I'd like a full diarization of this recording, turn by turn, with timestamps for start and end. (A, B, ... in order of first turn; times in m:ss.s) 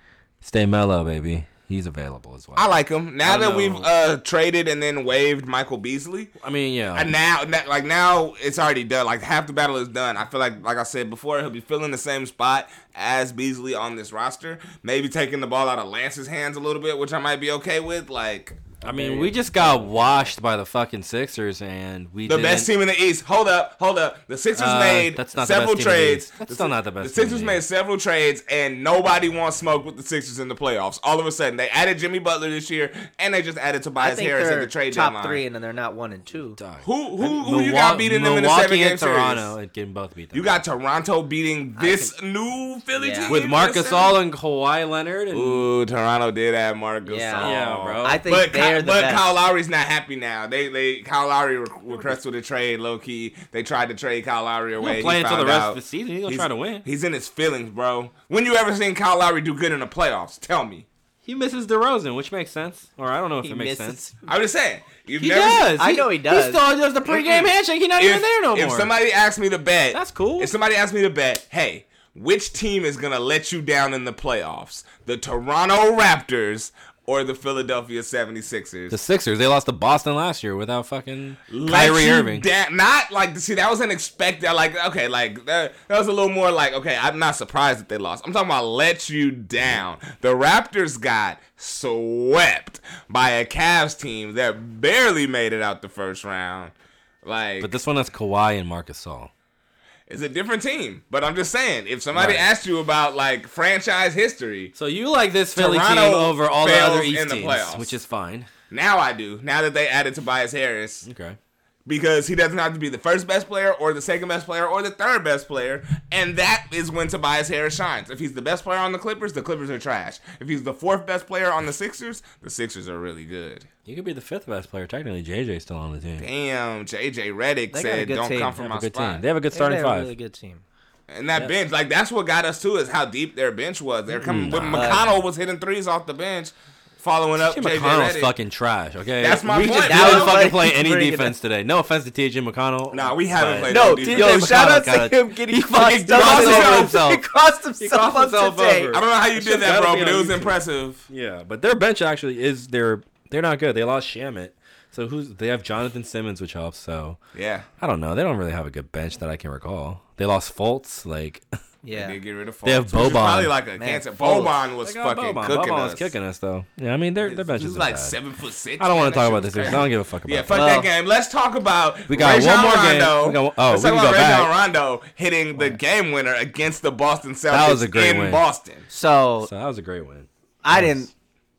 0:00.4-0:02.7 A
0:02.6-0:06.3 B
0:03.2-0:03.9 A
0:06.4-0:07.1 A
0:06.9-0:19.3 B
0:18.8-0:22.7 A
0:18.9-0:19.8 C
0:22.3-0:35.4 B
0:24.6-0:27.6 A
0:34.0-0:36.6 C
0:36.6-0:40.6 A
0:36.8-0:39.5 B
0:40.3-0:44.2 B
0:41.8-0:42.1 C
0:43.0-0:43.4 C
0:43.3-0:45.7 A
0:45.3-1:00.9 B
0:47.1-0:49.3 C
0:47.4-0:48.2 A
0:54.8-0:56.8 A
1:01.2-1:04.1 A
1:03.4-1:04.3 C
1:04.3-1:05.7 B
1:05.2-1:08.9 A
1:05.8-1:06.6 C
1:07.1-1:19.0 B
1:09.9-1:10.5 A
1:18.9-1:22.5 A
1:21.5-1:36.7 B
1:37.2-1:37.7 B
1:37.6-1:39.3 A
1:40.1-1:44.7 B
1:42.1-1:42.5 A
1:44.8-1:48.5 A
1:45.6-1:48.0 B
1:48.7-1:51.1 B
1:51.0-1:51.4 A
1:51.9-2:03.7 B
2:03.9-2:06.3 A
2:06.2-2:09.2 B
2:07.7-2:08.6 C
2:08.6-2:10.1 A
2:09.5-2:10.6 C
2:11.1-2:18.3 B
2:14.2-2:15.0 A
2:14.6-2:15.1 C
2:17.4-2:27.3 A
2:19.2-2:20.4 B
2:19.4-2:21.4 C
2:22.9-2:24.7 B
2:23.7-2:29.0 C
2:26.1-2:27.0 B
2:27.8-2:30.6 A
2:28.9-2:31.1 B
2:31.1-2:37.2 A
2:37.3-2:37.7 B
2:37.8-2:41.4 A
2:41.8-2:42.2 C
2:41.9-2:46.1 B
2:42.6-2:43.5 A
2:43.8-2:44.5 C
2:44.2-2:48.2 A
2:47.2-2:58.9 B
2:48.8-2:50.6 A
2:50.5-2:50.9 C
2:52.1-2:54.5 A
2:57.5-2:58.4 A
2:58.9-2:59.5 C
2:59.4-3:01.1 A
3:00.6-3:01.1 C